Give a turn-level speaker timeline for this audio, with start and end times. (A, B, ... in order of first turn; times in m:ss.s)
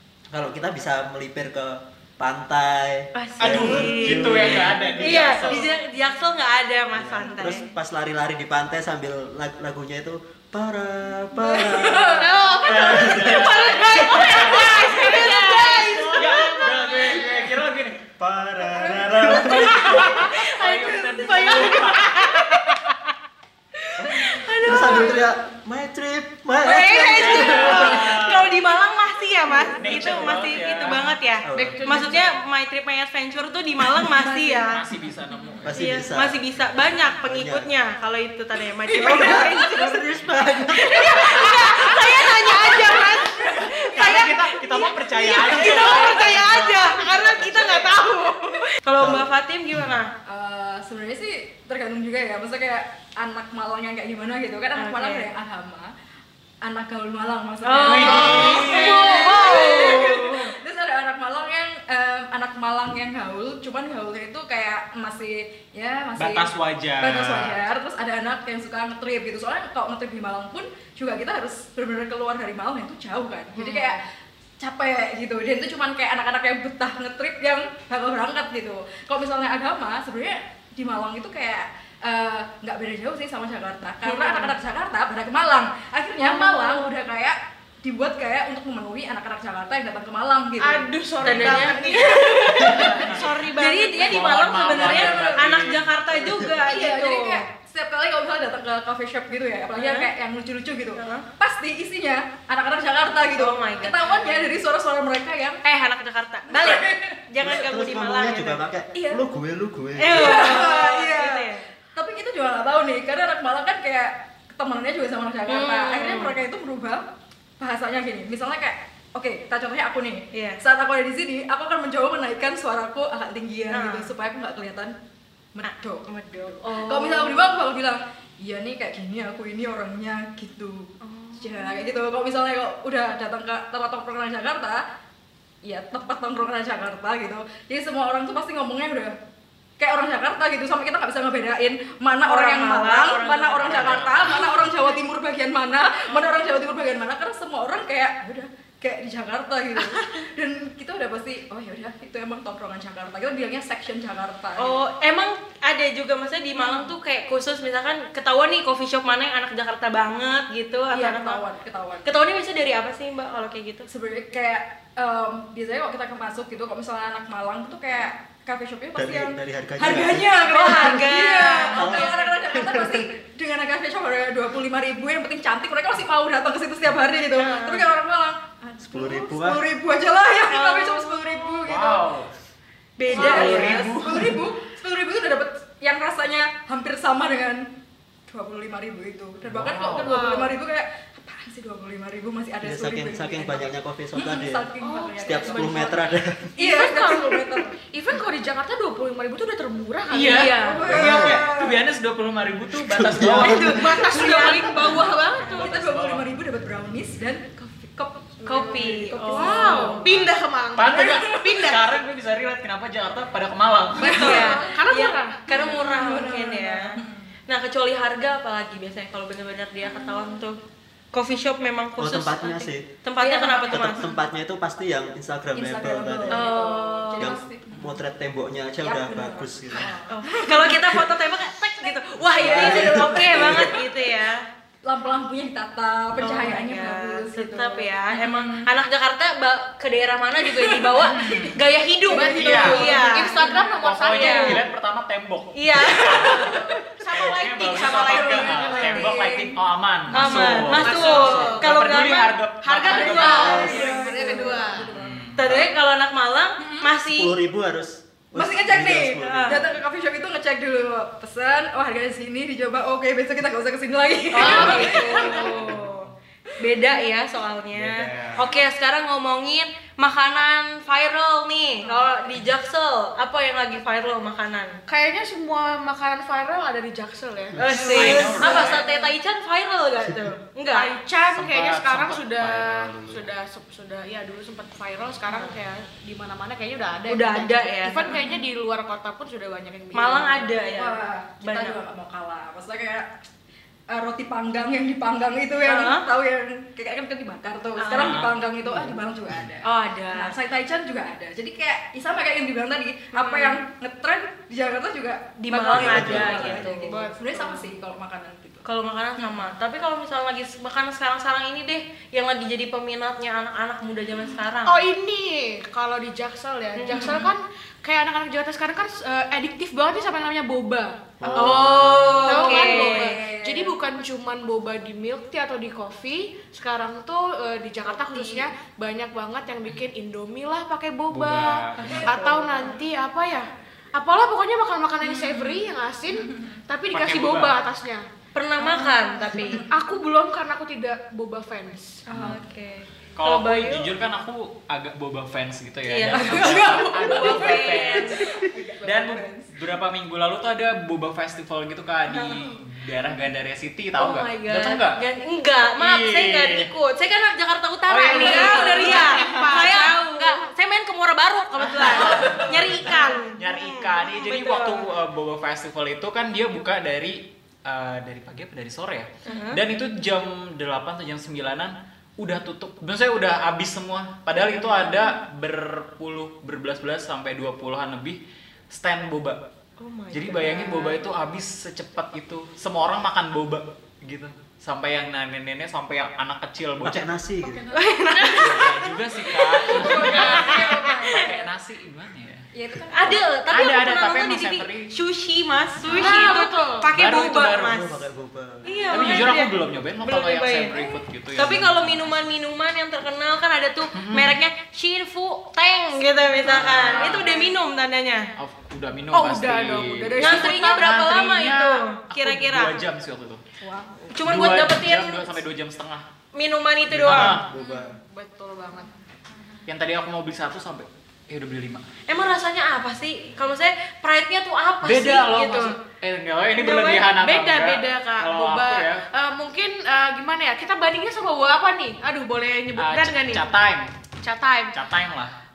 0:00.3-0:05.5 A
0:03.2-0:07.6 B
0:03.4-0:05.7 C
0:06.9-0:14.3 A
0:11.4-0:13.3 D
0:12.2-0:17.0 E
0:12.6-0:18.0 C
0:13.7-0:15.8 B
0:14.6-0:17.5 D
0:18.2-0:20.0 A
0:18.8-0:20.0 D
0:19.3-0:22.6 C
0:19.4-0:22.8 B
0:20.6-0:21.5 D
0:23.8-0:25.3 B
0:24.6-0:28.2 A
0:24.6-0:25.3 D
0:26.6-0:34.8 B
0:27.2-0:28.5 C
0:29.6-0:30.1 D
0:29.8-0:31.2 C
0:31.5-0:31.9 A
0:31.5-0:32.4 E
0:34.1-0:34.8 D
0:34.7-0:35.8 C
0:35.6-0:36.4 A
0:35.7-0:40.0 B
0:37.2-0:37.7 A
0:39.0-0:41.2 A
0:39.0-0:39.5 E
0:40.7-0:50.1 B
0:41.0-0:43.4 E
0:42.7-0:44.3 D
0:43.0-0:47.4 C
0:45.3-0:47.6 E
0:47.3-0:48.0 D
0:49.0-0:49.3 A
0:50.3-0:55.9 D
0:54.8-0:55.3 B
0:56.6-1:14.0 D
0:57.6-1:00.6 B
0:57.8-0:59.3 C
0:58.0-1:00.0 E
1:06.2-1:07.6 C
1:13.6-1:14.0 B
1:14.6-1:35.5 D
1:24.0-1:24.6 B
1:26.2-1:26.9 B
1:30.6-1:33.8 E
1:31.2-1:37.4 B
1:31.3-1:31.6 C
1:32.6-1:33.2 C
1:34.0-1:35.9 C
1:36.1-1:36.6 A
1:36.6-1:45.6 D
1:39.8-1:40.1 B
1:41.0-1:41.3 B
1:43.4-1:44.6 B
1:45.6-1:49.2 B
1:46.5-1:47.2 D
1:47.4-1:50.7 A
1:50.0-1:51.7 B
1:50.1-1:57.0 D
1:55.5-1:56.4 B
1:57.6-2:05.0 D
2:00.3-2:00.6 B
2:03.7-2:04.1 B
2:05.5-2:14.8 D
2:05.6-2:07.6 B
2:11.0-2:12.0 B
2:15.6-2:19.2 D
2:19.8-2:34.8 D
2:22.2-2:24.4 B
2:23.7-2:24.5 C
2:26.1-2:26.3 B
2:34.6-2:41.4 B
2:36.6-2:36.9 D
2:40.9-2:42.1 D
2:42.0-2:43.9 B
2:43.9-3:02.1 D
2:49.0-2:53.1 A
2:49.8-2:52.4 B
2:57.4-2:57.9 B
2:58.8-2:59.6 A
3:00.5-3:01.6 B
3:01.6-3:02.3 C
3:03.0-3:03.9 B
3:03.1-3:07.7 D
3:03.1-3:04.4 C
3:08.3-3:17.8 D
3:09.4-3:10.1 C
3:10.1-3:10.6 E
3:12.6-3:14.7 A
3:14.8-3:15.9 E
3:15.2-3:16.5 A
3:16.6-3:21.0 E
3:20.1-3:23.9 C
3:20.3-3:20.8 B
3:20.6-3:21.8 D
3:20.8-3:21.4 A
3:22.8-3:23.8 A
3:23.2-3:30.2 D
3:23.4-3:25.7 E
3:24.1-3:24.7 B
3:24.6-3:26.3 C
3:28.4-3:30.1 B
3:29.3-3:32.0 E
3:30.0-3:34.5 C
3:31.0-3:31.6 D
3:34.0-3:34.8 D
3:34.0-3:35.8 E
3:34.0-3:37.0 B
3:35.5-3:37.3 D
3:37.5-3:40.6 B
3:39.8-3:40.4 D
3:41.1-3:44.1 B
3:42.0-3:42.9 A
3:43.2-3:44.2 D
3:43.7-3:46.5 A
3:45.5-3:48.0 D
3:46.3-3:47.4 B
3:47.2-3:49.9 A
3:48.8-3:51.1 D
3:50.1-3:54.4 B
3:51.9-3:53.8 D
3:52.4-3:53.8 A
3:54.8-3:58.7 D
3:56.2-4:03.5 B
4:00.4-4:03.9 D
4:01.0-4:01.6 C
4:02.2-4:04.6 E
4:02.3-4:02.9 C
4:03.8-4:13.6 C
4:04.1-4:04.6 B
4:05.6-4:06.6 B
4:06.1-4:09.6 D
4:06.2-4:09.3 E
4:10.1-4:14.6 B
4:10.1-4:11.6 D
4:10.3-4:11.6 E
4:11.0-4:11.3 A
4:12.7-4:14.9 E
4:12.9-4:15.2 D
4:13.3-4:13.9 A
4:14.8-4:15.4 C
4:15.4-4:17.4 B
4:15.4-4:15.7 A
4:17.0-4:19.8 A
4:18.4-4:25.7 D
4:19.2-4:19.6 B
4:24.3-4:26.1 B
4:24.4-4:25.4 E
4:24.4-4:26.1 C
4:26.6-4:34.8 B
4:27.8-4:28.5 C
4:34.9-4:38.8 E
4:37.6-4:41.0 B
4:37.7-4:39.0 D
4:37.9-4:38.8 C
4:40.7-4:50.5 E
4:41.3-4:43.3 C
4:45.3-4:45.6 B
4:47.1-4:48.2 B
4:48.0-4:48.4 D
4:49.9-4:51.8 B
4:50.7-4:53.1 D
4:53.9-5:08.6 D
4:55.6-4:56.1 B
4:57.8-4:58.2 B
4:57.9-4:58.3 C
4:58.6-4:59.0 A
4:59.6-5:00.4 B
5:03.2-5:03.6 B
5:05.4-5:06.9 B
5:05.7-5:06.7 A
5:06.8-5:07.7 E
5:08.6-5:14.8 B
5:14.7-5:38.0 E
5:16.8-5:17.3 B
5:17.0-5:17.2 D
5:21.2-5:22.2 A
5:21.2-5:23.8 D
5:21.4-5:23.2 B
5:31.1-5:32.1 C
5:31.8-5:32.8 D
5:35.1-5:35.6 D
5:36.9-5:37.5 C
5:38.4-5:39.6 B
5:38.6-5:39.7 D
5:39.6-5:42.0 E
5:42.1-5:42.4 D
5:42.1-5:43.9 B
5:43.2-5:55.0 C
5:45.9-5:48.2 B
5:46.1-5:49.5 D
5:52.1-5:52.6 B
5:54.0-6:04.9 B
5:55.8-5:56.7 C
5:57.9-5:59.4 C
5:58.1-6:00.4 E
5:58.1-5:59.6 D
6:01.6-6:18.2 C
6:02.2-6:02.5 D
6:09.2-6:09.6 B
6:18.7-6:19.4 C
6:19.8-6:21.1 B
6:20.1-6:27.1 C
6:26.8-6:27.6 A
6:27.4-6:28.3 D
6:27.7-6:31.2 B
6:28.1-6:28.6 E
6:28.4-6:32.4 C
6:29.6-6:31.5 D
6:29.7-6:31.0 E
6:32.5-6:33.2 D
6:32.9-6:38.0 B
6:33.5-6:34.9 C
6:35.9-6:36.9 E
6:36.9-6:37.8 C
6:37.6-6:38.7 A
6:38.6-6:48.3 B
6:38.7-6:39.2 D
6:38.9-6:42.3 C
6:43.9-6:44.4 C
6:46.4-6:47.4 C
6:46.7-6:47.5 D
6:48.4-6:53.4 C
6:49.1-6:50.9 E
6:50.2-6:52.8 B
6:53.6-6:54.1 D
6:54.1-6:55.4 B
6:54.2-6:56.0 C
6:56.4-6:57.4 B
6:56.9-6:57.5 C
6:57.1-6:57.8 A
6:57.5-6:57.9 D
6:57.8-6:58.9 E
6:59.7-7:01.9 C
7:02.1-7:05.8 B
7:04.8-7:09.0 C
7:06.6-7:07.0 B
7:06.7-7:13.5 E
7:12.8-7:13.9 C
7:14.2-7:14.8 E
7:14.7-7:15.3 C